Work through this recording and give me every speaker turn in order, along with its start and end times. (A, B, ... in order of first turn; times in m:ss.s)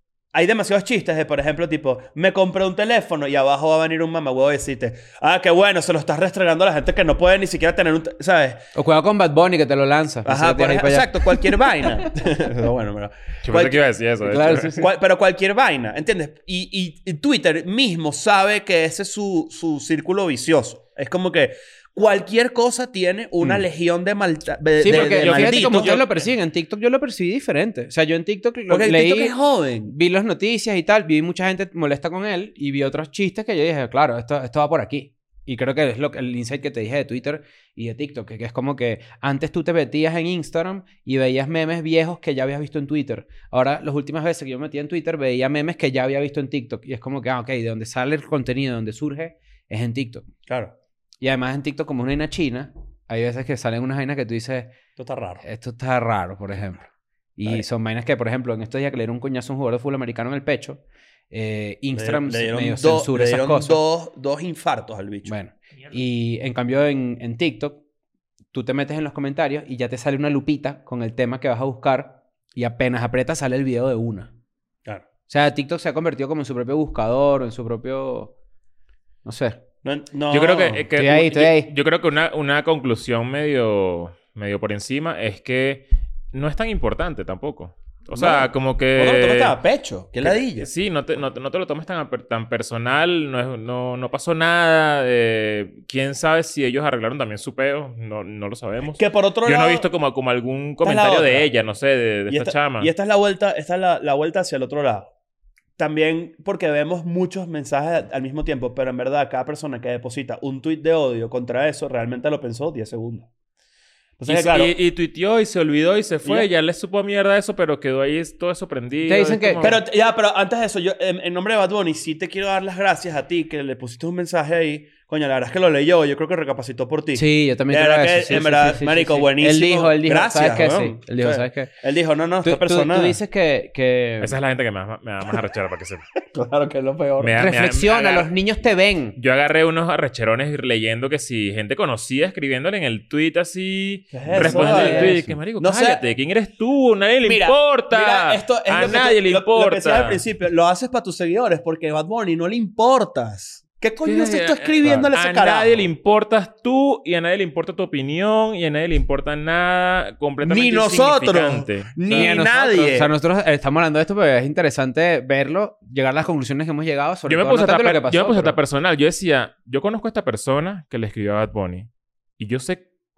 0:00.3-0:08.7 A
0:08.8-0:11.7 B
0:10.2-0:13.8 A
0:13.4-0:14.8 C
0:14.3-0:14.8 B
0:14.8-0:26.0 A
0:24.8-0:29.3 B
0:24.9-0:26.2 C
0:28.7-0:29.9 A
0:29.8-0:50.3 B
0:50.5-0:50.7 A
0:51.2-0:54.8 B
0:55.0-0:55.4 A
0:55.4-1:00.8 B
1:01.3-1:03.8 B
1:01.9-1:05.3 A
1:05.2-1:07.8 B
1:08.5-1:14.3 B
1:15.3-1:18.3 B
1:19.2-1:19.6 B
1:19.8-1:20.8 A
1:20.3-1:29.6 C
1:20.9-1:21.7 B
1:28.1-1:30.7 A
1:30.2-1:42.9 C
1:38.9-1:39.9 A
1:40.8-1:41.5 A
1:42.3-1:45.1 A
1:45.8-1:53.3 A
1:54.2-1:54.7 A
1:54.3-1:59.8 C
1:59.1-1:59.6 B
1:59.6-2:13.2 A
2:07.2-2:11.7 B
2:12.4-2:14.4 B
2:14.2-2:16.1 C
2:16.3-2:17.4 A
2:17.2-2:18.3 C
2:17.4-2:19.2 B
2:19.2-2:30.2 C
2:24.1-2:26.0 A
2:24.3-2:25.4 B
2:27.2-2:35.9 A
2:34.0-2:42.3 C
2:40.4-2:43.1 A
2:42.0-2:48.6 B
2:47.3-2:52.8 C